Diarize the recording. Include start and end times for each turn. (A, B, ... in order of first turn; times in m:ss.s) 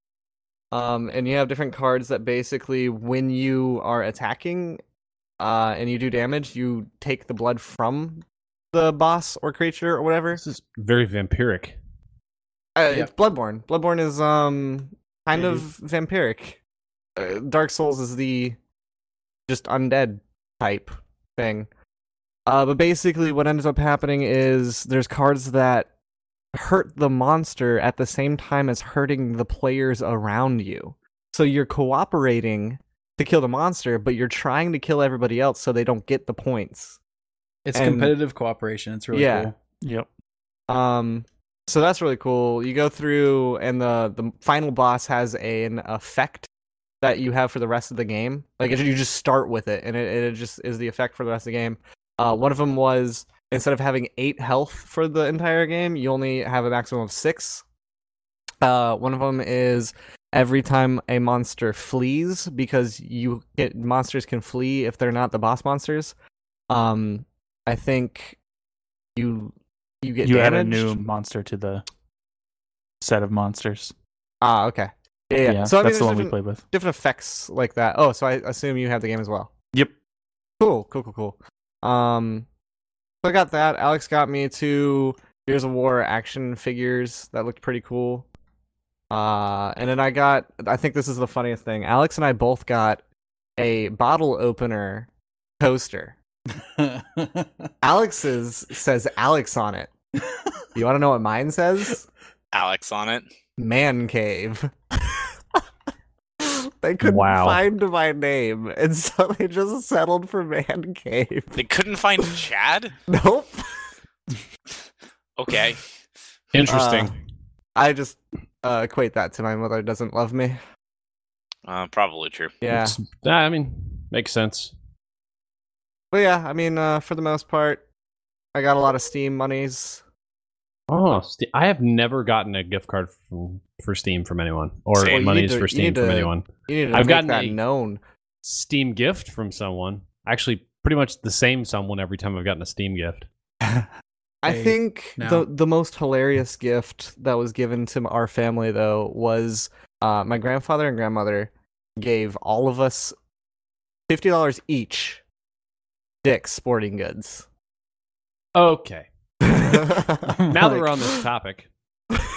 0:00.7-0:04.8 A
0:05.4-0:10.4 A
0:10.4-0:11.8 B
0:12.8-0:16.6 A
0:15.4-0:15.6 C
0:17.2-0:18.6 A
0:19.5-0:21.7 A
0:22.5-0:25.9 A
0:26.5-0:37.0 A
0:37.6-0:39.6 C
0:37.8-0:38.2 A
0:39.1-0:39.5 A
0:39.8-0:40.1 D
0:40.7-0:46.5 A
0:47.0-0:57.6 A
0:58.6-1:06.1 A
1:06.7-1:08.4 A
1:09.2-1:11.0 A
1:10.2-1:11.8 D
1:13.0-1:13.9 D
1:14.4-1:19.5 A
1:15.4-1:16.6 D
1:20.6-1:22.5 A
1:23.2-1:28.3 A
1:29.1-1:33.0 A
1:33.6-1:35.1 A
1:35.6-1:36.2 A
1:36.6-1:37.7 C
1:37.8-1:39.9 A
1:40.8-1:42.1 A
1:42.5-1:43.2 E
1:43.6-1:45.2 A
1:46.4-1:51.6 A
1:47.0-1:47.6 B
1:51.6-1:53.0 E
1:53.1-1:53.7 A
1:55.4-1:55.9 E
1:56.5-1:57.1 B
1:56.7-1:57.1 A
1:57.8-2:00.6 A
2:01.7-2:02.5 E
2:02.6-2:03.0 A
2:02.7-2:04.7 B
2:06.1-2:07.9 A
2:08.5-2:10.0 A
2:10.9-2:17.6 B
2:15.0-2:15.2 E
2:15.0-2:18.0 A
2:18.4-2:23.3 B
2:24.4-2:33.2 A
2:24.5-2:25.5 C
2:34.1-2:35.2 A
2:36.2-2:37.4 A
2:38.6-2:39.1 B
2:39.5-2:40.4 A
2:40.3-2:40.8 C
2:40.5-2:41.7 B